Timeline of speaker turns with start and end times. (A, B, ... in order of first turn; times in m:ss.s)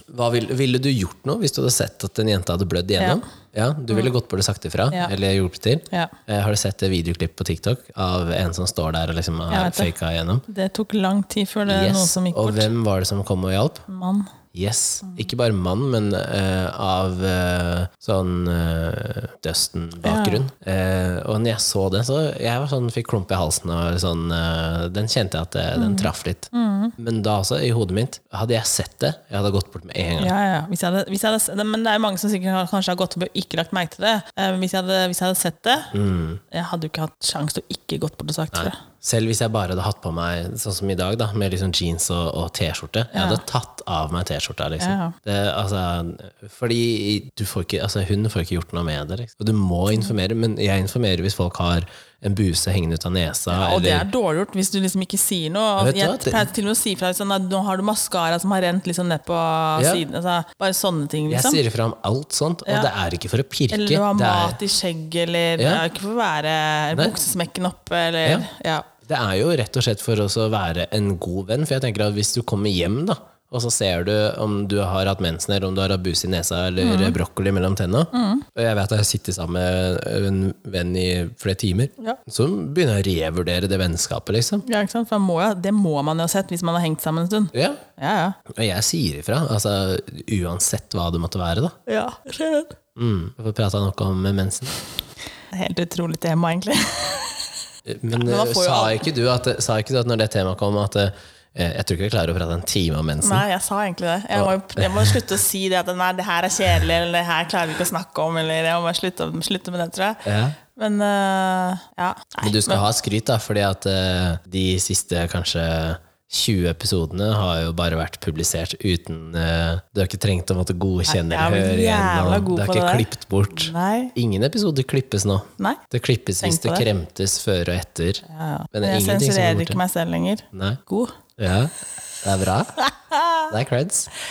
0:00.1-0:10.4 A
0:03.0-0:03.2 B
0:09.5-0:09.9 B
0:10.5-0:12.7 B
0:11.6-0:13.8 A
0:13.9-0:14.3 B
0:14.5-0:30.3 A
0:20.0-0:20.4 B
0:25.8-0:27.0 B
0:30.2-0:35.9 B
0:35.9-0:36.4 A
0:36.5-0:38.8 B
0:38.5-0:54.1 A
0:43.1-0:43.4 B
0:44.8-0:45.2 B
0:53.5-1:01.6 B
0:55.8-0:56.4 A
0:59.8-1:00.0 A
1:01.3-1:04.6 A
1:03.7-1:08.9 B
1:05.6-1:05.8 A
1:09.0-1:24.6 A
1:16.8-1:17.2 B
1:18.1-1:18.4 B
1:24.6-1:28.4 B
1:27.5-1:27.8 A
1:28.5-1:31.8 A
1:31.9-1:32.8 B
1:33.0-1:34.7 A
1:35.5-1:37.5 B
1:37.9-1:43.4 A
1:38.1-1:39.1 B
1:43.2-1:52.8 B
1:44.3-1:45.2 A
1:50.2-1:50.6 A
1:52.4-2:09.8 A
2:01.1-2:04.1 B
2:06.4-2:06.9 B
2:08.3-2:11.1 B
2:10.5-2:10.8 A
2:11.4-2:12.8 A
2:12.8-2:13.5 B
2:13.5-2:14.1 A